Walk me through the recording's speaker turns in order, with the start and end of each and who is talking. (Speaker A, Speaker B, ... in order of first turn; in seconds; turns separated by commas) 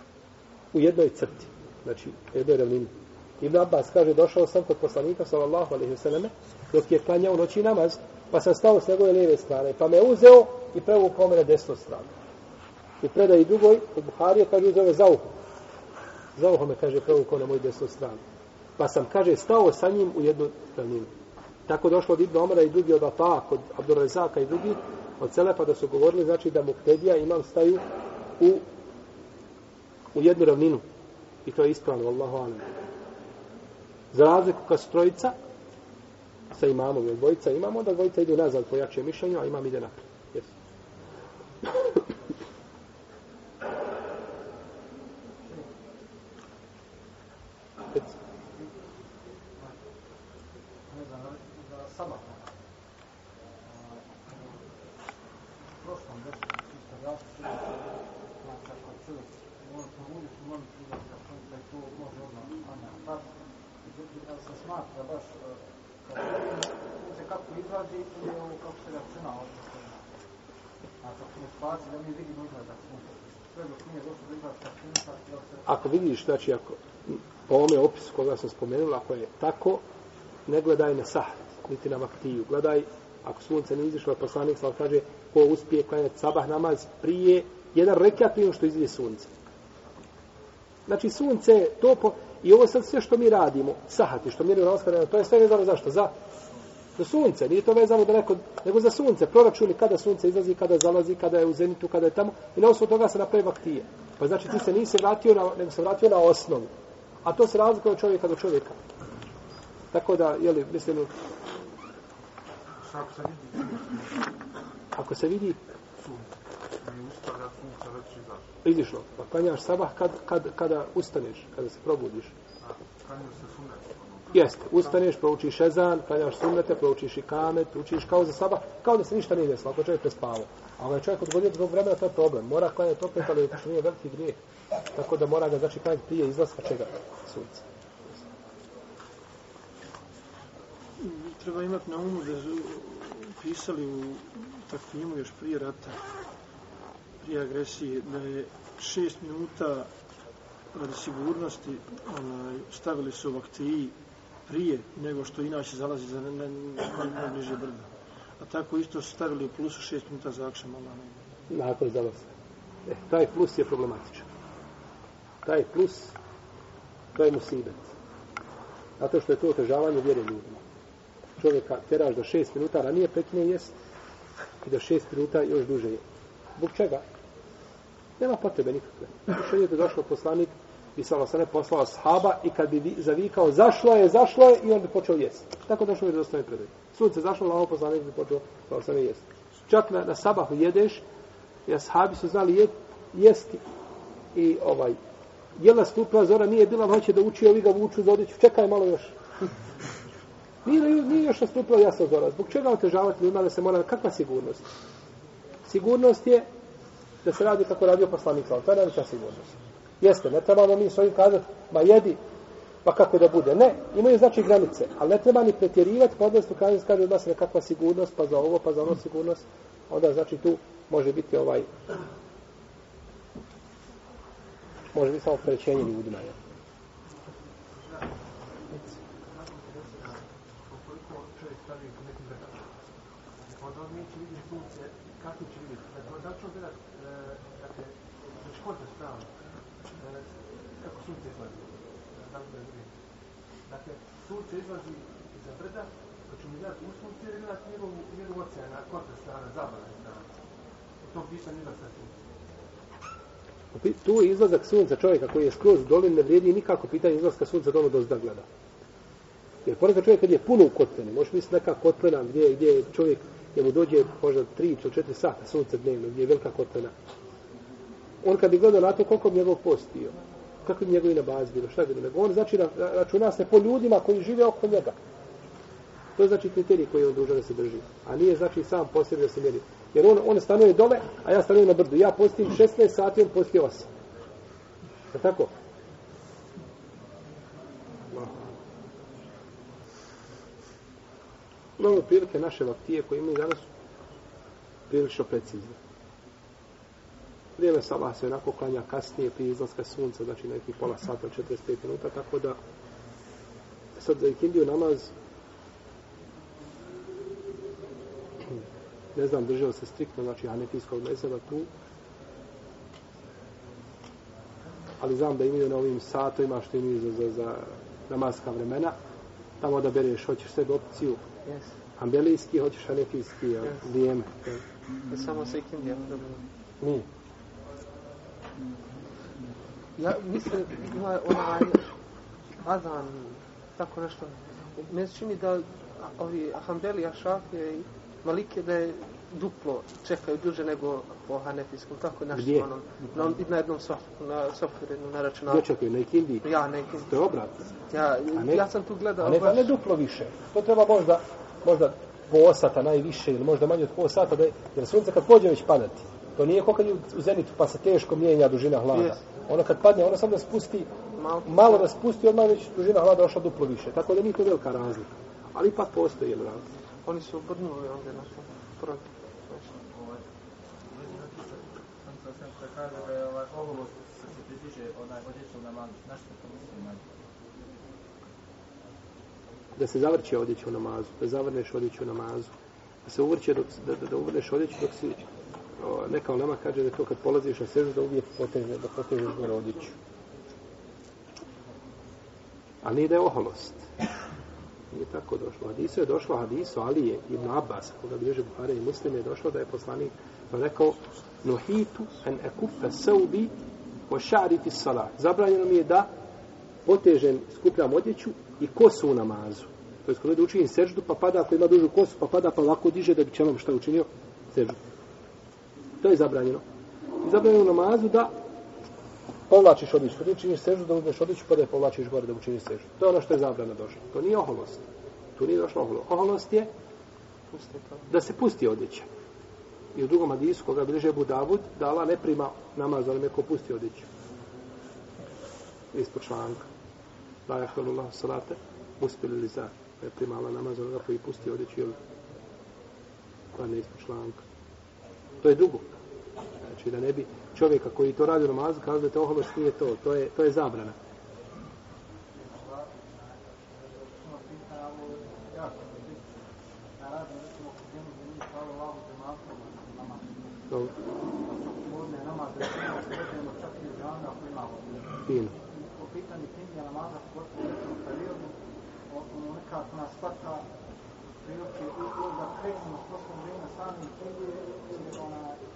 Speaker A: 0.7-12.1, Speaker A: 13.0-15.3, Speaker A: 16.4-18.2, Speaker A: 18.8-21.1, Speaker A: 21.7-27.8, Speaker A: 28.4-28.6, Speaker A: 30.1-30.8, Speaker A: 31.4-32.8, Speaker A: 34.1-35.4, Speaker A: 36.5-40.5, Speaker B: 50.9-52.4, Speaker B: 53.6-54.7, Speaker B: 55.8-63.3, Speaker B: 63.8-70.0, Speaker B: 71.0-75.7, Speaker A: 75.7-79.8, Speaker A: 80.5-89.3, Speaker A: 90.9-96.1, Speaker A: 97.0-106.7, Speaker A: 107.2-108.8, Speaker A: 109.9-111.1, Speaker C: 112.8-114.2, Speaker A: 114.9-115.6, Speaker C: 116.8-118.5, Speaker A: 118.6-122.3, Speaker C: 122.6-124.5, Speaker A: 124.3-134.4, Speaker A: 134.9-137.6, Speaker D: 141.0-146.0, Speaker D: 147.2-149.9, Speaker D: 150.7-153.9, Speaker D: 154.5-161.2, Speaker A: 161.5-162.3, Speaker A: 162.9-164.3, Speaker A: 165.4-166.1, Speaker A: 167.1-167.9, Speaker A: 169.0-170.6, Speaker A: 171.4-173.7, Speaker A: 174.6-176.0, Speaker A: 176.6-177.0, Speaker A: 178.2-191.0, Speaker A: 191.7-193.6, Speaker A: 194.3-195.0, Speaker A: 195.6-199.1, Speaker A: 200.6-204.7, Speaker A: 205.7-206.5, Speaker A: 207.2-212.2, Speaker A: 212.8-221.7, Speaker A: 224.9-226.3, Speaker C: 227.8-228.1, Speaker C: 228.7-232.7, Speaker C: 233.5-239.3, Speaker C: 240.0-242.9, Speaker C: 243.7-250.2, Speaker C: 251.0-252.1, Speaker A: 253.7-258.4, Speaker A: 259.6-266.9, Speaker A: 268.2-275.0, Speaker A: 276.2-283.9, Speaker A: 285.1-285.5, Speaker A: 291.8-293.6, Speaker A: 294.9-295.8, Speaker A: 297.6-302.6, Speaker A: 303.9-305.1, Speaker A: 309.1-311.7, Speaker A: 315.0-318.9, Speaker A: 319.6-321.2, Speaker E: 321.4-321.7, Speaker A: 322.0-324.6, Speaker E: 325.1-326.4, Speaker A: 326.8-327.1, Speaker E: 330.0-331.9, Speaker E: 332.6-345.6, Speaker A: 342.3-342.7, Speaker A: 345.5-346.5, Speaker E: 346.4-347.1, Speaker A: 347.1-347.5, Speaker E: 347.9-349.7, Speaker A: 348.3-348.6, Speaker A: 349.2-360.9, Speaker E: 361.2-361.9, Speaker A: 361.4-366.7, Speaker E: 367.0-369.7, Speaker F: 369.9-370.2, Speaker F: 370.9-377.0, Speaker A: 379.8-382.5, Speaker A: 383.0-385.3, Speaker A: 385.8-389.9, Speaker A: 392.8-393.9, Speaker A: 394.9-403.5, Speaker A: 404.1-406.1, Speaker A: 406.8-414.8, Speaker A: 416.0-416.6, Speaker A: 417.2-418.3, Speaker A: 419.5-424.8, Speaker A: 425.4-426.7, Speaker E: 427.5-428.1, Speaker A: 428.1-429.1, Speaker A: 429.9-434.1, Speaker A: 435.9-436.6, Speaker A: 437.5-442.0, Speaker A: 443.5-444.4, Speaker A: 445.4-445.9, Speaker A: 446.6-450.9, Speaker B: 452.3-456.3, Speaker B: 457.0-460.5, Speaker B: 461.1-468.5, Speaker A: 465.3-465.5, Speaker B: 469.1-470.6, Speaker B: 471.4-475.6